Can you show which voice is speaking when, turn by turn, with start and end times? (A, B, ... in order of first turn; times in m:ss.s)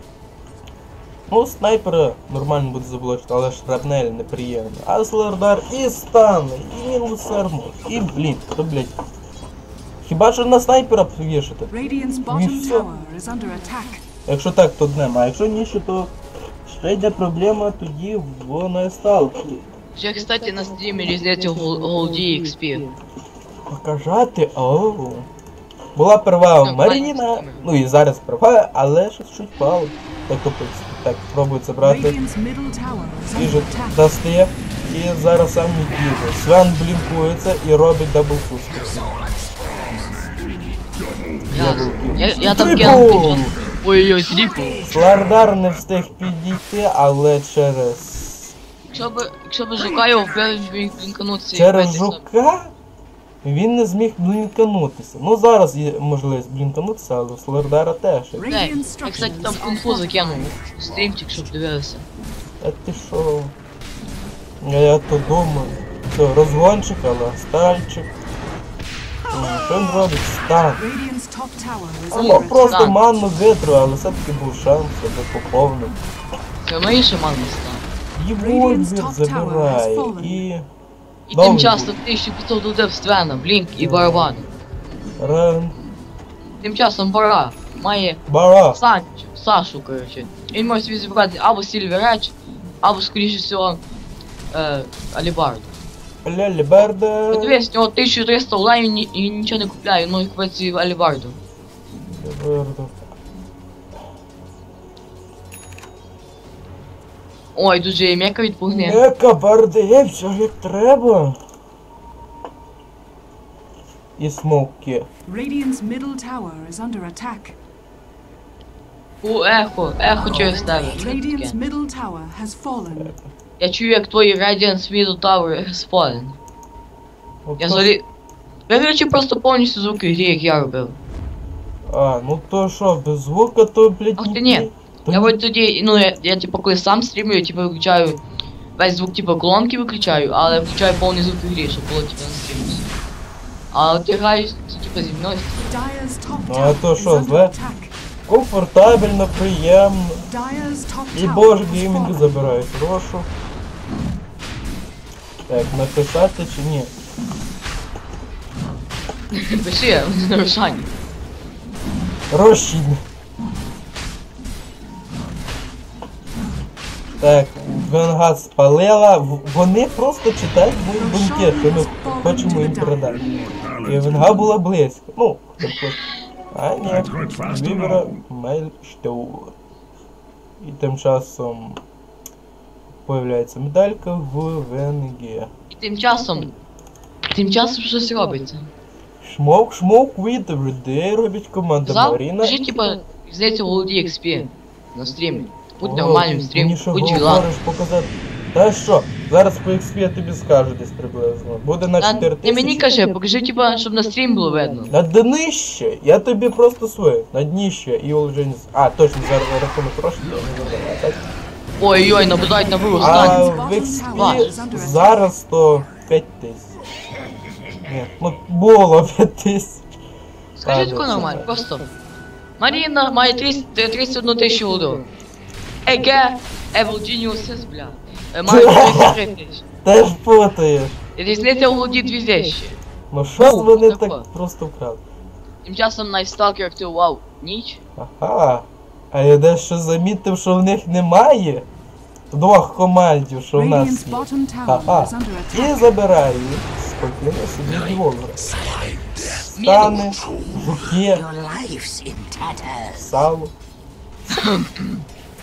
0:01.3-0:08.9 A
0:10.0-0:11.7 A
0:11.7-0:14.0 B
0:12.3-0:12.9 A
0:14.2-0:16.1 A
0:16.6-0:19.6 A
0:19.9-0:22.9 C
0:23.7-0:25.3 A
0:25.9-0:32.2 A
0:26.6-0:27.7 C
0:31.8-0:34.0 B
0:33.3-0:39.1 A
0:38.6-0:43.2 D
0:41.5-0:44.8 C
0:41.5-0:43.5 A
0:44.3-0:45.6 D
0:44.8-0:48.6 A
0:48.9-0:52.2 C
0:51.5-0:52.7 A
0:53.4-0:58.5 A
0:58.4-1:00.6 B
0:58.5-1:02.0 C
1:00.8-1:01.1 D
1:02.6-1:03.5 A
1:04.6-1:08.1 A
1:09.3-1:10.8 A
1:10.8-1:12.9 B
1:12.1-1:15.9 A
1:12.1-1:13.0 C
1:16.6-1:17.8 C
1:18.1-1:20.7 A
1:18.4-1:20.4 B
1:21.3-1:24.5 C
1:21.3-1:21.9 A
1:23.8-1:24.4 A
1:25.2-1:25.8 A
1:26.6-1:33.8 C
1:28.3-1:28.8 A
1:34.5-1:35.7 C
1:36.2-1:37.6 A
1:37.3-1:41.4 C
1:42.0-1:43.0 A
1:47.5-1:49.0 C
1:48.8-1:51.4 A
1:54.2-1:55.1 A
1:55.3-1:57.6 B
1:59.2-2:01.6 C
2:00.1-2:01.1 D
2:00.9-2:03.1 B
2:03.6-2:06.4 C
2:07.4-2:07.9 A
2:07.6-2:08.0 C
2:08.7-2:11.0 C
2:11.9-2:15.3 A
2:14.2-2:18.2 C
2:18.8-2:22.9 C
2:23.7-2:25.7 C
2:25.7-2:27.9 B
2:26.5-2:27.5 A
2:28.3-2:30.2 A
2:30.3-2:32.4 B
2:31.1-2:33.3 A
2:35.5-2:36.9 A
2:39.3-2:40.9 C
2:42.3-2:43.0 A
2:47.2-2:53.3 A
2:51.0-2:53.3 B
2:53.3-2:54.5 D
2:53.8-2:56.0 A
2:56.5-2:59.5 A
2:56.9-2:58.1 D
3:00.6-3:01.8 A
3:03.0-3:05.5 A
3:05.7-3:06.5 C
3:07.3-3:08.7 C
3:09.2-3:12.6 A
3:11.8-3:17.4 C
3:15.8-3:22.8 A
3:22.0-3:24.9 C
3:24.9-3:31.2 A
3:31.8-3:33.5 C
3:32.9-3:35.2 B
3:33.0-3:36.7 A
3:34.1-3:34.4 C
3:37.8-3:39.8 A
3:40.6-3:41.8 C
3:40.6-3:41.5 A
3:42.6-3:45.1 C
3:45.8-3:49.6 C
3:48.4-3:49.2 A
3:49.8-3:51.0 A
3:51.2-3:52.8 C
3:53.1-3:55.0 A
3:53.4-3:54.3 C
3:55.6-3:57.8 C
3:58.0-4:01.6 A
4:02.3-4:08.6 A
4:03.5-4:05.8 B
4:07.6-4:13.2 D
4:09.5-4:11.2 A
4:09.6-4:10.0 C
4:13.0-4:13.5 A
4:14.3-4:15.0 C